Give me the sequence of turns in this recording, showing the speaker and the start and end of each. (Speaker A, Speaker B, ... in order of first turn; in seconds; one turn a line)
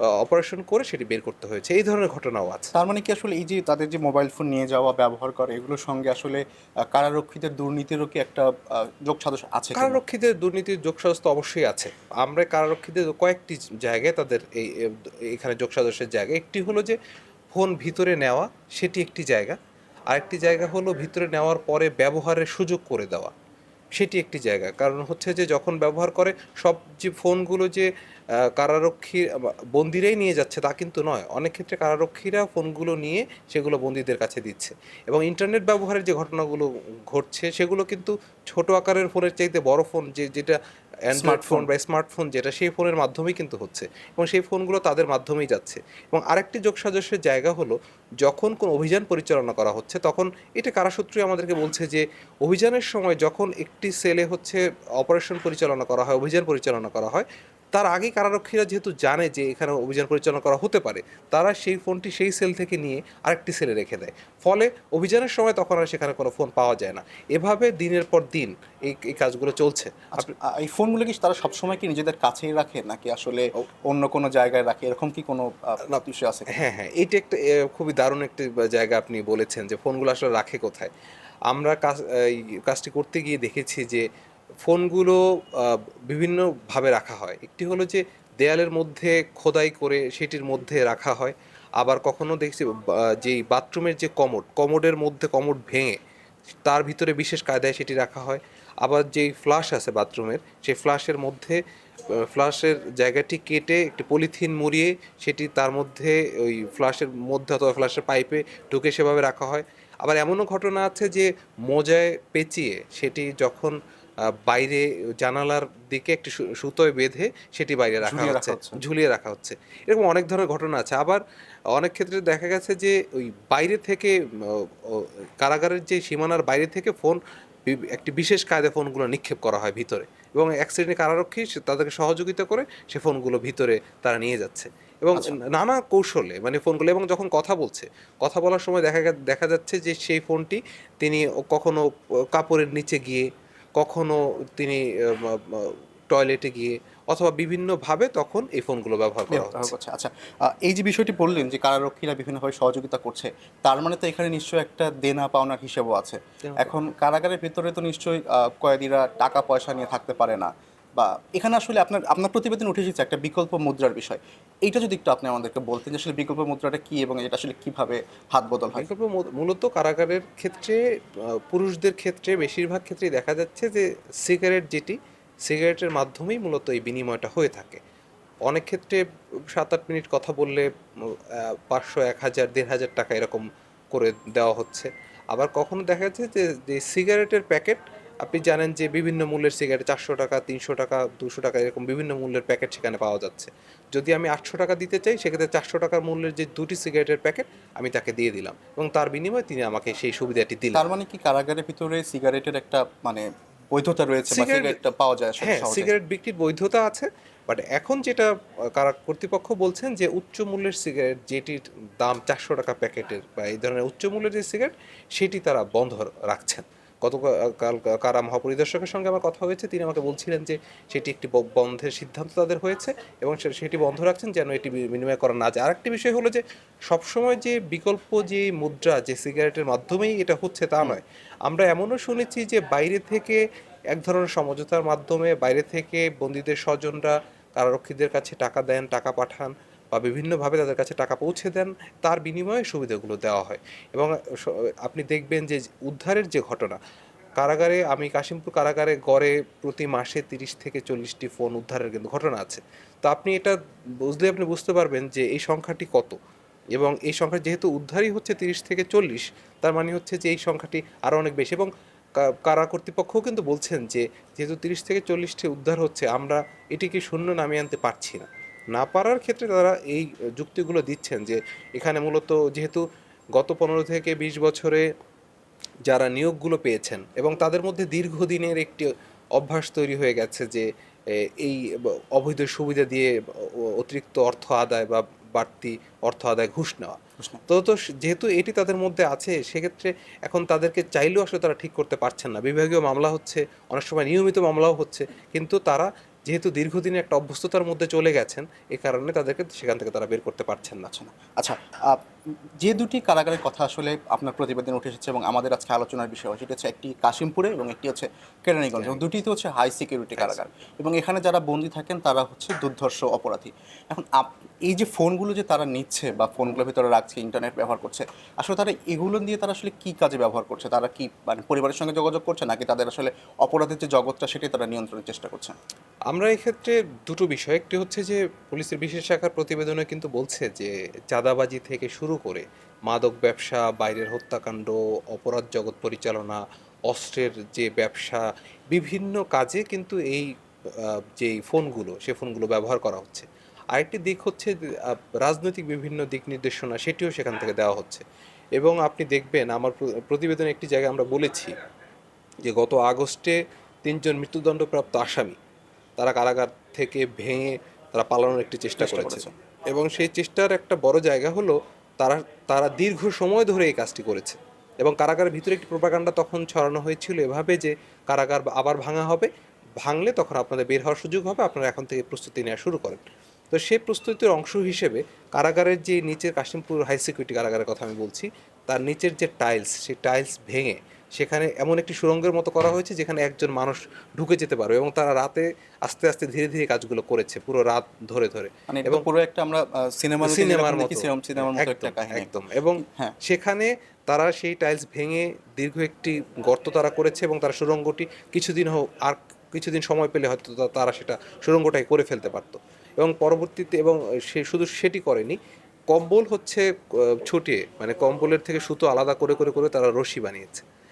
Speaker A: 0.2-2.7
Speaker B: 2.7-10.0
Speaker A: 9.8-17.0
Speaker A: 17.5-19.6
Speaker A: 20.1-23.3
Speaker A: 24.0-27.9
Speaker A: 28.4-40.6
Speaker A: 41.1-70.3
Speaker B: 41.1-41.7
Speaker B: 70.2-76.5
Speaker A: 76.5-80.9
Speaker A: 81.5-84.1
Speaker A: 84.6-96.0
Speaker A: 96.7-101.6
Speaker A: 102.3-113.8
Speaker A: 114.5-149.7
Speaker B: 118.0-118.8
Speaker B: 149.3-168.9
Speaker A: 156.4-156.8
Speaker A: 168.8-170.8
Speaker A: 171.3-177.8
Speaker A: 178.5-200.8
Speaker B: 200.7-205.9
Speaker A: 204.3-204.8
Speaker A: 205.4-233.4
Speaker A: 233.9-246.8
Speaker A: 247.4-256.2
Speaker A: 256.8-274.9
Speaker A: 275.9-300.9
Speaker B: 300.9-302.1
Speaker B: 302.6-325.6
Speaker A: 308.8-309.1
Speaker A: 326.1-348.0
Speaker A: 348.6-351.5
Speaker A: 352.4-355.4
Speaker A: 356.0-369.3
Speaker B: 358.8-359.3
Speaker A: 369.8-373.0
Speaker A: 373.5-389.1
Speaker B: 388.7-393.1
Speaker A: 390.2-405.4
Speaker A: 405.9-410.6